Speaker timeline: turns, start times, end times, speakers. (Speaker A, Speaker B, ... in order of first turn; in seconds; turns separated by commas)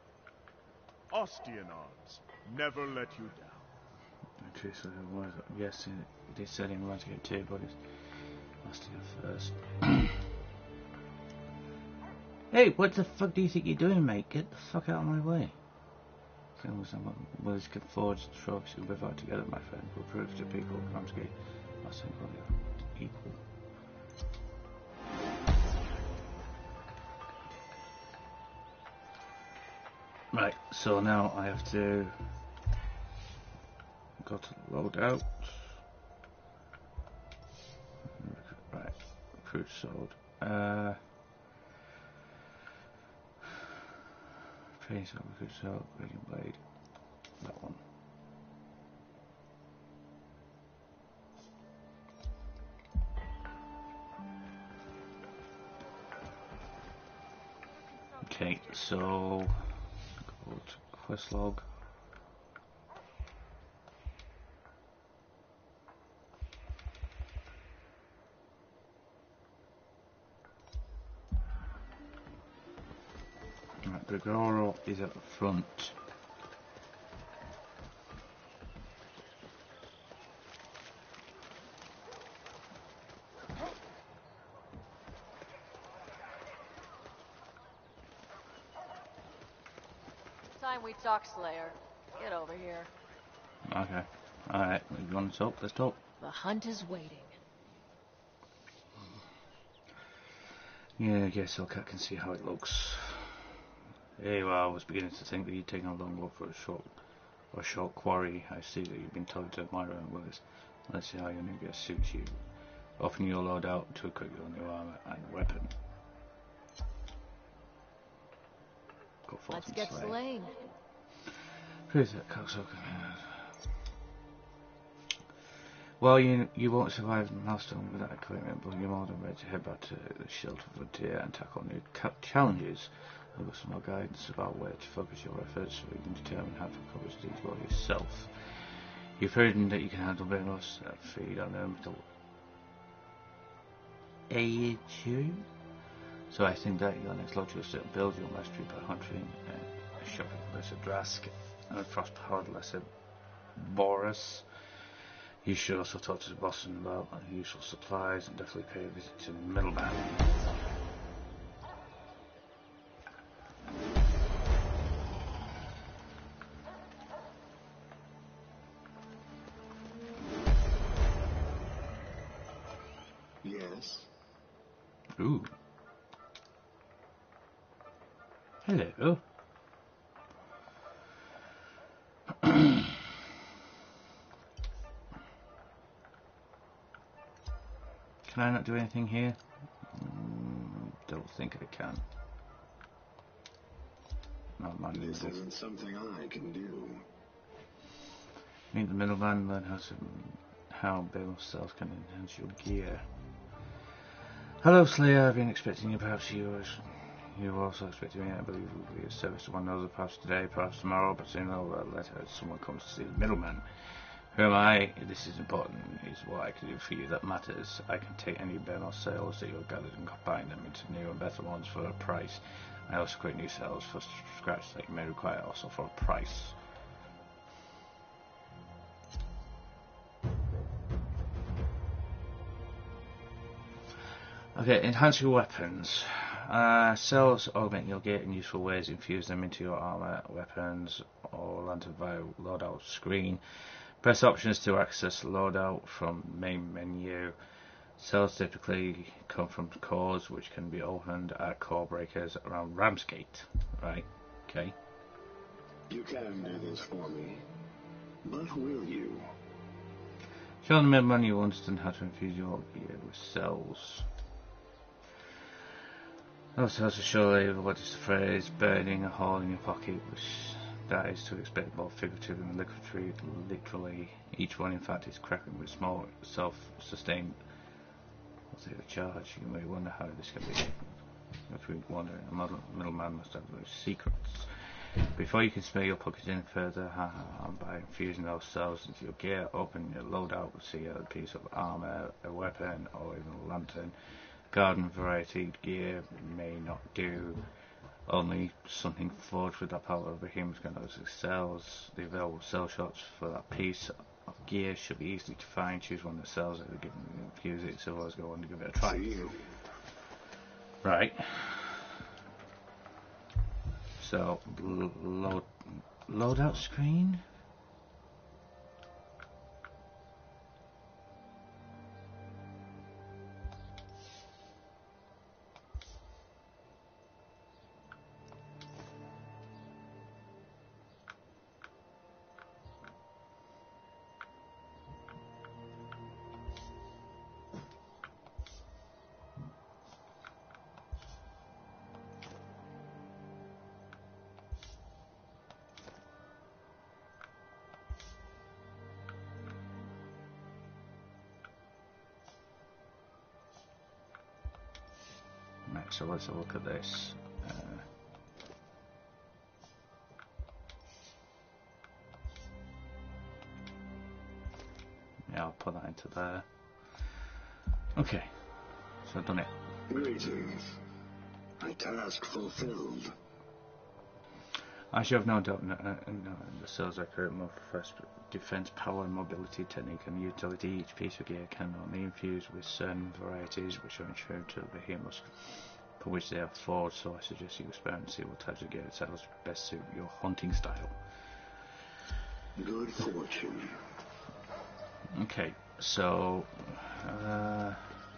Speaker A: 1.1-3.7, Speaker B: 4.4-10.2, Speaker B: 12.5-15.6, Speaker B: 16.6-23.4, Speaker B: 30.3-32.2, Speaker B: 34.2-35.8, Speaker B: 38.2-41.0, Speaker B: 44.8-46.6, Speaker B: 47.4-47.8, Speaker B: 58.2-59.8, Speaker B: 60.4-61.7, Speaker B: 73.8-76.0, Speaker C: 90.6-92.9, Speaker B: 93.7-96.0, Speaker C: 96.2-97.4, Speaker B: 101.0-103.6, Speaker B: 104.2-107.0, Speaker B: 107.5-112.4, Speaker B: 113.0-115.7, Speaker B: 119.3-120.2, Speaker C: 119.5-120.8, Speaker B: 121.9-123.5, Speaker B: 126.0-142.1, Speaker B: 144.3-145.5, Speaker B: 146.3-152.9, Speaker B: 153.6-154.5, Speaker B: 155.4-160.2, Speaker D: 173.4-174.1, Speaker B: 175.2-175.5, Speaker B: 178.6-179.2, Speaker B: 182.4-182.9, Speaker B: 188.3-192.0, Speaker B: 194.6-195.4, Speaker D: 194.9-197.1, Speaker B: 198.7-203.1, Speaker B: 204.6-226.6, Speaker B: 234.6-247.3, Speaker B: 248.0-254.8, Speaker D: 255.9-257.5, Speaker D: 258.2-259.3, Speaker B: 260.6-264.1, Speaker B: 266.6-277.4, Speaker B: 278.5-280.9, Speaker B: 281.5-284.5, Speaker B: 285.1-297.4, Speaker B: 298.1-309.2, Speaker D: 308.8-309.5, Speaker B: 310.8-312.0, Speaker B: 314.0-317.2, Speaker B: 355.7-357.9, Speaker B: 365.3-367.3, Speaker B: 367.9-369.6, Speaker D: 369.9-370.8, Speaker D: 371.6-373.1, Speaker B: 374.9-391.0, Speaker D: 392.6-393.9, Speaker B: 395.1-398.0